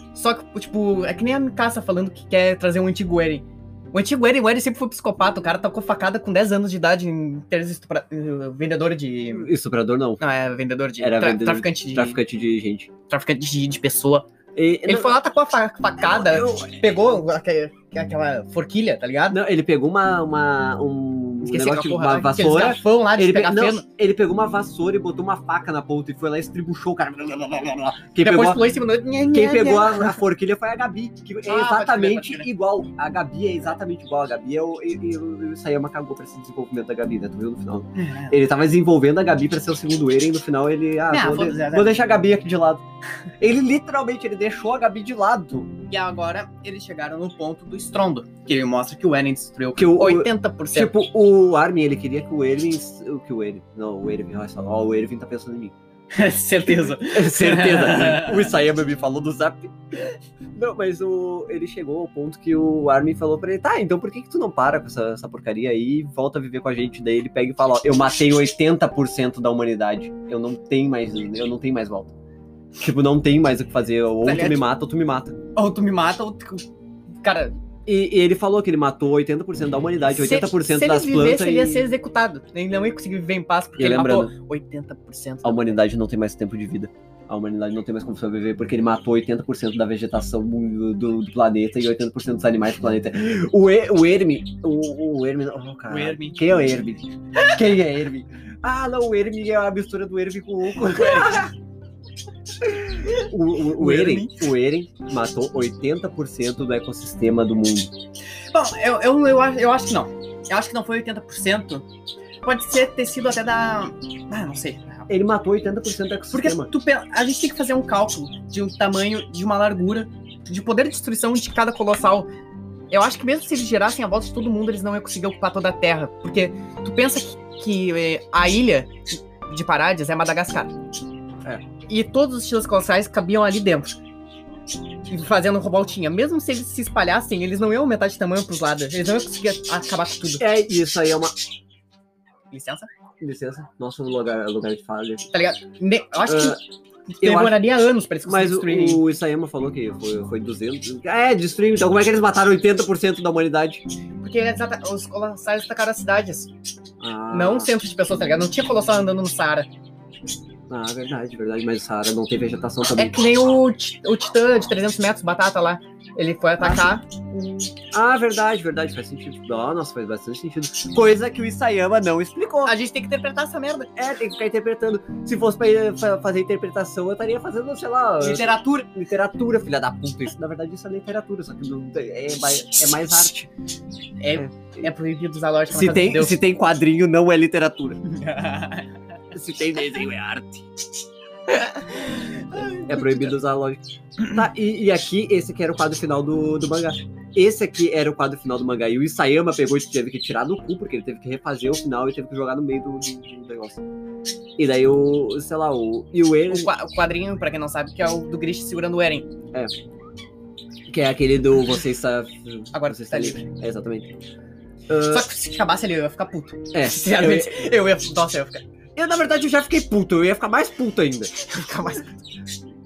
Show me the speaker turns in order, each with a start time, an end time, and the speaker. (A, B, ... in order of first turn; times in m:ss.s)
0:00.1-0:09.5 A
0:09.3-0:10.2 B
0:10.2-0:12.2 A
0:11.0-0:12.9 B
0:13.1-0:14.3 A
0:14.6-0:15.1 B
0:14.9-0:19.4 A
0:16.0-0:16.8 B
0:19.3-0:28.7 B
0:21.4-0:23.9 A
0:28.2-0:30.2 A
0:29.3-0:42.8 B
0:31.5-0:32.5 A
0:38.0-0:38.4 A
0:41.1-0:41.9 A
0:43.4-0:45.7 B
0:45.9-0:50.9 A
0:49.8-0:55.8 B
0:56.1-0:58.5 A
0:56.7-0:59.7 B
1:00.5-1:12.1 B
1:12.8-1:15.4 B
1:14.2-1:14.6 A
1:15.6-1:16.7 A
1:17.2-1:17.5 A
1:17.9-1:21.9 B
1:20.2-1:25.8 A
1:23.8-1:24.3 B
1:25.4-1:41.5 B
1:35.9-1:36.4 A
1:40.9-1:41.4 A
1:42.6-1:48.0 B
1:43.8-1:44.4 A
1:48.5-1:51.9 A
1:52.4-1:55.1 A
1:55.1-1:56.7 B
1:56.3-2:02.3 A
2:02.9-2:10.8 A
2:11.9-2:14.0 A
2:15.1-2:20.4 A
2:20.4-2:21.3 B
2:22.5-2:22.9 A
2:23.2-2:25.3 B
2:25.3-2:26.6 A
2:26.3-2:26.6 B
2:27.1-2:29.0 A
2:27.2-2:27.6 B
2:28.3-2:33.8 B
2:34.2-2:36.5 A
2:37.0-2:37.7 B
2:37.3-2:39.7 A
2:40.7-2:43.2 B
2:43.0-2:47.1 A
2:46.6-2:52.8 B
2:52.6-2:53.9 A
2:54.0-3:03.5 B
2:58.2-2:58.9 A
3:04.2-3:06.4 A
3:04.4-3:04.9 B
3:05.7-3:08.0 B
3:08.0-3:08.9 A
3:09.3-3:10.7 B
3:11.5-3:13.3 A
3:12.9-3:23.8 B
3:24.6-3:26.7 B
3:26.5-3:29.3 A
3:30.9-3:34.1 B
3:32.7-3:33.4 A
3:34.9-3:35.3 B
3:35.0-3:38.6 A
3:36.7-3:37.7 B
3:39.0-3:41.3 B
3:41.4-3:42.2 A